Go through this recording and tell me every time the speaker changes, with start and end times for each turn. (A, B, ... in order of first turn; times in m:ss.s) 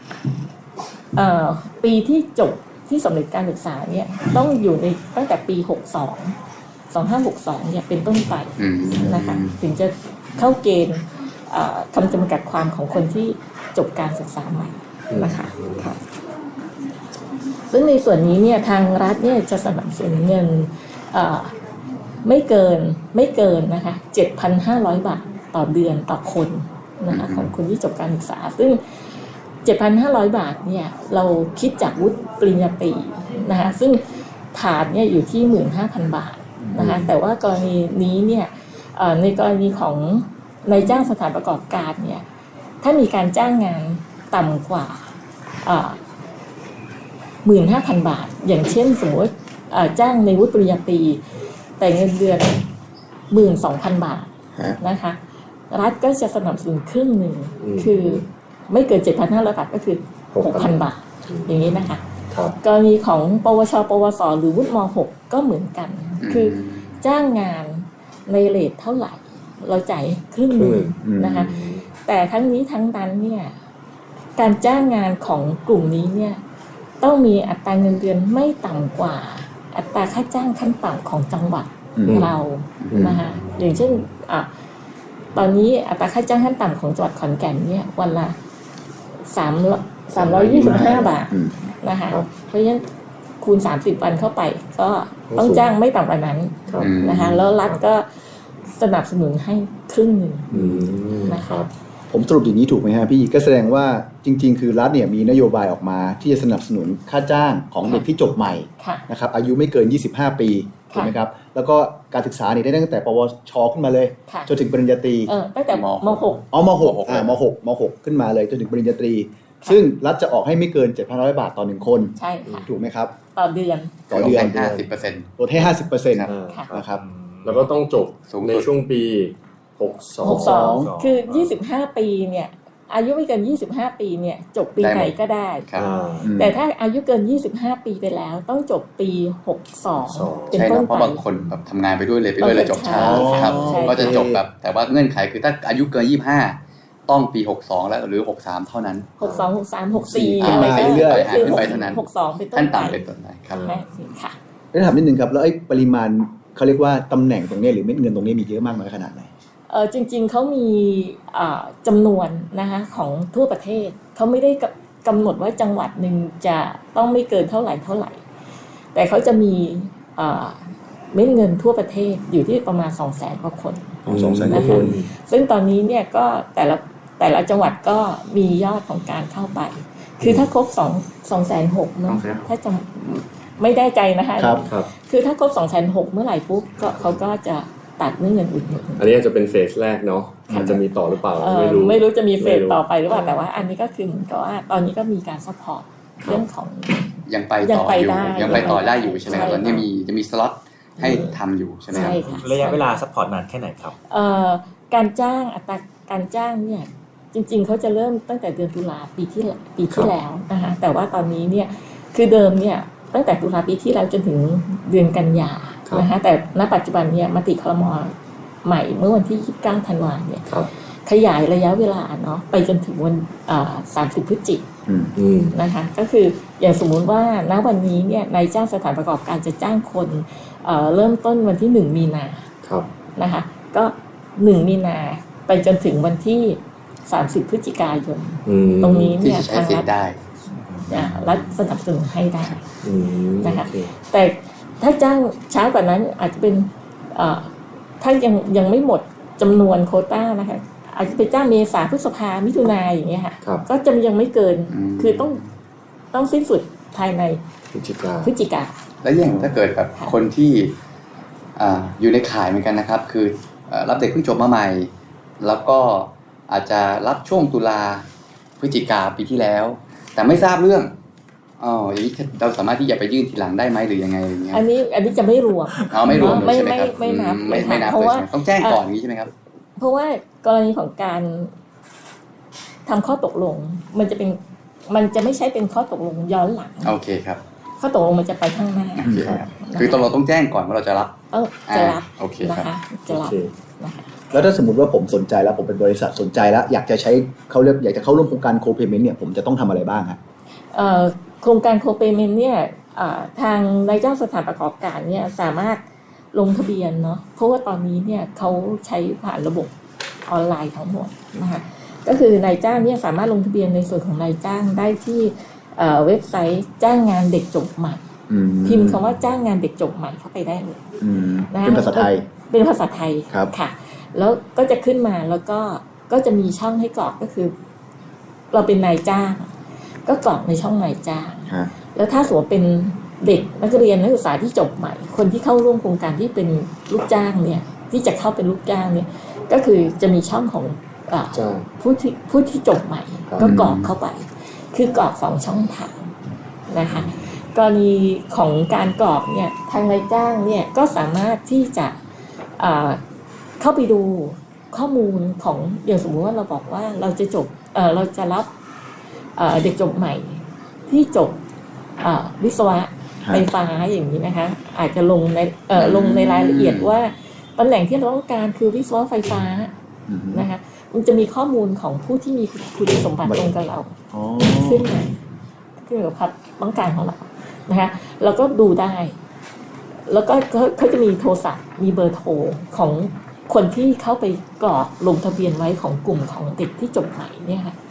0:01.1-0:06.4 A
0:06.9-0:16.0 A
0:08.6-0:09.6 B
0:15.1-0:15.8 C
0:17.7-0:21.6 A
0:22.2-0:28.8 A
0:27.1-0:27.5 B
0:29.6-0:42.2 A
0:36.6-0:37.1 D
0:42.8-0:46.0 A
0:47.4-0:51.2 A
0:51.8-0:52.6 A
0:53.3-0:55.2 A
0:55.7-1:02.0 A
0:57.6-0:58.2 C
1:00.3-1:01.6 C
1:02.3-1:02.6 C
1:02.6-1:13.6 A
1:06.2-1:07.0 B
1:10.5-1:11.9 C
1:11.0-1:11.5 D
1:14.4-1:16.4 A
1:17.0-1:24.5 A
1:22.0-1:22.3 D
1:22.8-1:23.1 B
1:22.9-1:23.3 C
1:25.4-1:28.4 A
1:29.2-1:32.9 A
1:30.2-1:31.1 C
1:30.6-1:31.6 D
1:33.4-1:40.5 A
1:35.3-1:35.6 C
1:36.8-1:37.5 B
1:40.5-1:40.9 D
1:40.5-1:41.7 C
1:41.2-1:41.7 A
1:42.1-1:55.3 D
1:55.3-1:56.5 A
1:55.7-1:57.4 B
1:56.5-2:03.1 D
2:02.2-2:02.7 A
2:03.4-2:04.0 A
2:04.1-2:04.9 C
2:04.1-2:04.7 D
2:04.1-2:05.3 B
2:05.4-2:07.0 D
2:06.3-2:06.9 C
2:06.9-2:07.7 E
2:07.4-2:10.6 C
2:08.3-2:08.7 B
2:10.2-2:15.7 A
2:10.2-2:10.9 D
2:10.4-2:11.6 E
2:14.8-2:15.1 B
2:15.8-2:16.3 C
2:16.2-2:16.6 D
2:16.3-2:21.2 A
2:20.0-2:20.6 C
2:20.5-2:29.1 B
2:22.4-2:24.2 A
2:22.9-2:24.4 D
2:29.2-2:33.0 A
2:29.2-2:29.5 C
2:30.1-2:31.8 D
2:30.3-2:33.7 B
2:33.5-2:33.8 C
2:33.6-2:34.4 A
2:34.7-2:39.3 D
2:39.7-2:48.2 A
2:48.9-3:09.1 A
2:54.1-2:55.0 D
2:54.1-2:55.1 C
3:04.4-3:04.6 D
3:09.0-3:13.6 C
3:10.5-3:10.8 D
3:10.5-3:10.8 A
3:11.3-3:19.9 A
3:16.2-3:16.4 C
3:17.3-3:22.2 B
3:18.4-3:19.7 C
3:21.0-3:21.3 A
3:21.9-3:23.0 A
3:21.9-3:24.0 E
3:24.1-3:38.1 A
3:38.6-3:44.6 A
3:44.9-3:45.1 D
3:45.2-3:45.6 C
3:45.5-3:52.5 A
3:52.6-3:52.9 C
3:53.2-3:59.9 A
3:58.5-3:59.2 C
3:59.2-4:00.2 B
4:00.6-4:01.3 E
4:00.9-4:02.6 A
4:02.8-4:03.9 C
4:03.4-4:15.4 A
4:14.7-4:15.5 B
4:16.1-4:17.4 A
4:17.7-4:18.3 C
4:18.2-4:18.8 A
4:19.0-4:20.8 B
4:21.6-4:28.1 B
4:28.6-4:30.9 B
4:31.6-4:34.6 B
4:34.5-4:38.8 A
4:35.9-4:39.3 B
4:39.8-4:41.5 A
4:42.9-4:47.0 A
4:46.8-4:47.4 B
4:47.8-4:50.1 A
4:49.0-4:51.1 B
4:49.0-4:49.4 D
4:51.3-4:54.3 A
4:51.7-4:52.7 B
4:53.1-4:53.5 C
4:54.3-5:00.2 D
5:00.7-5:09.7 A
5:10.3-5:18.0 A
5:18.3-5:19.0 D
5:18.6-5:20.9 A
5:21.0-5:22.3 D
5:21.5-5:27.6 A
5:28.5-5:29.5 A
5:30.0-5:46.1 A
5:41.3-5:41.7 C
5:43.4-5:43.9 B
5:46.7-5:52.0 A
5:52.6-5:53.0 A
5:53.6-5:58.5 A
5:59.4-6:01.4 A
6:02.0-6:09.7 A
6:03.2-6:03.5 D
6:05.8-6:06.9 B
6:10.1-6:10.5 D
6:10.3-6:15.1 A
6:13.2-6:13.5 D
6:14.1-6:14.9 D
6:15.8-6:19.2 A
6:20.1-6:27.8 A